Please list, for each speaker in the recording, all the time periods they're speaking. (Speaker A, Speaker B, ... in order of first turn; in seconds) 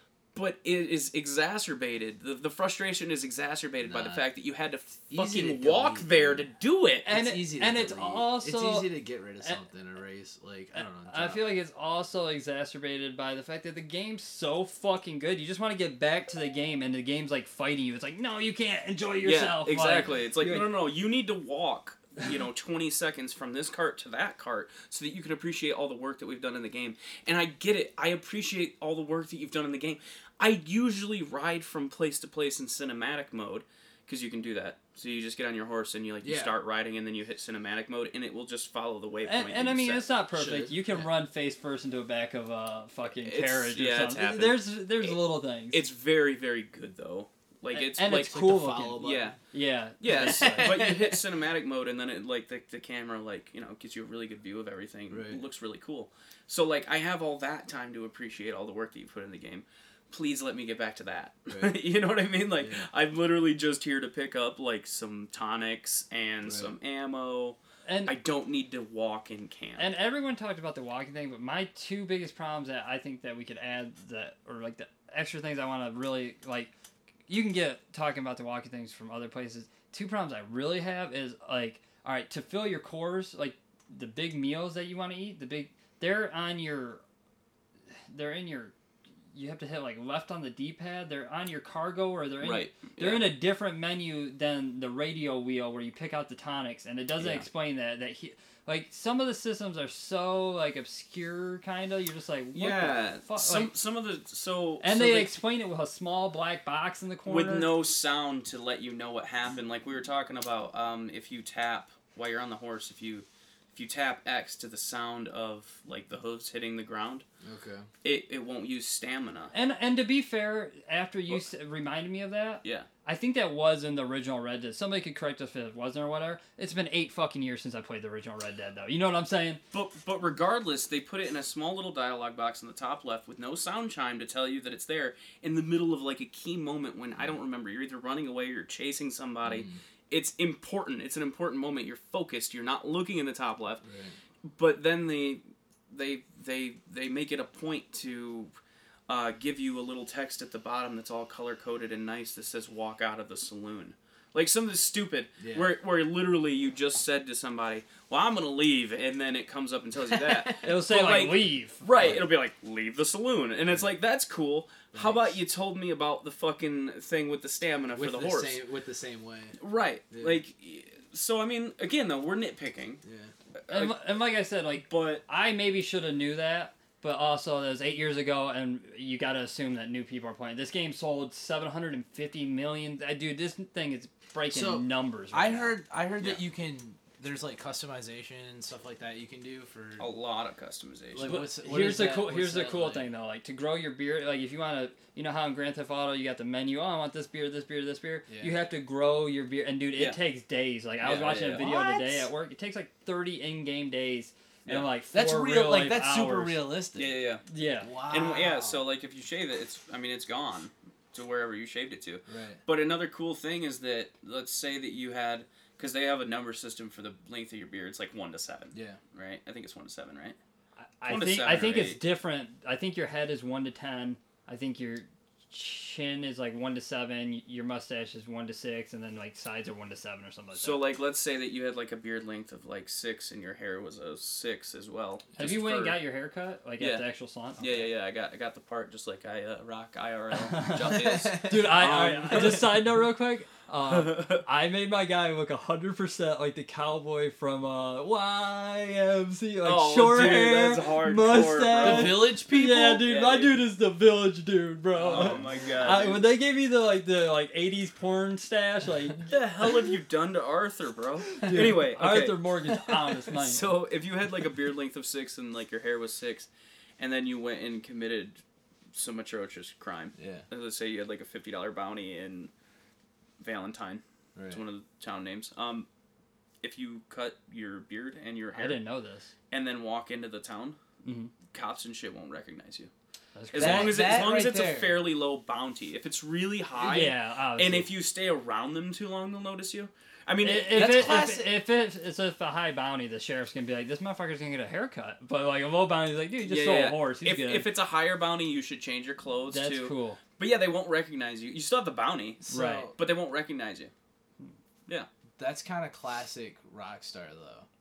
Speaker A: 0.3-7.1, 19.2-40.1, 43.1-45.2, 45.7-48.3, 49.0-49.4, 50.0-69.9, 92.4-93.3, 102.5-105.3, 107.3-117.2, 118.0-119.5, 129.7-143.8, 144.4-148.5, 149.1-168.6, 169.6-173.0, 173.6-174.1, 174.9-175.2, 190.0-191.4, 201.0-201.6, 204.7-204.9, 207.0-207.4, 208.1-220.4, 221.1-222.0, 230.6-236.0, 236.8-237.1, 237.6-242.9, 243.9-244.4, 249.6-253.6, 255.0-256.3, 259.3-262.4, 263.3-268.4, 268.9-272.5, 273.4-275.9, 276.6-278.8, 279.5-280.8, 281.5-282.9, 283.5-291.2, 296.5-303.9
Speaker B: 3.8-4.2, 5.1-6.5, 7.1-11.4, 20.0-20.2, 36.2-36.5, 40.3-40.8, 48.1-49.4, 50.1-51.2, 55.1-55.4, 61.5-61.8, 62.6-62.9, 66.4-66.7, 117.4-117.9, 139.4-139.8, 143.8-144.2, 155.4-155.7, 160.1-160.7, 164.9-165.4, 167.9-169.6, 170.1-170.4, 173.0-173.3, 184.5-190.1, 191.1-193.1, 198.3-198.6, 201.5-202.3, 205.1-207.2, 207.8-208.8, 212.3-212.6, 218.7-219.0, 240.8-242.7, 251.7-253.1, 255.0-256.0, 261.4-261.8, 270.2-270.5, 274.4-274.6, 283.5-285.0, 290.7-291.5, 302.4-302.9, 305.4-307.7
Speaker C: 7.0-8.9, 10.8-20.7, 39.2-45.9, 47.7-50.7, 67.9-68.2, 69.8-76.7, 77.3-87.0, 88.1-88.7, 89.3-103.7, 104.8-107.7, 119.5-129.6, 160.6-162.2, 173.7-185.8, 191.2-206.7, 207.5-207.9, 221.0-230.8, 235.4-237.9, 240.3-259.3, 261.4-263.7, 278.5-279.3, 281.0-281.3, 283.4-284.2, 286.8-287.9, 290.4-297.7, 299.5-300.2, 302.5-302.9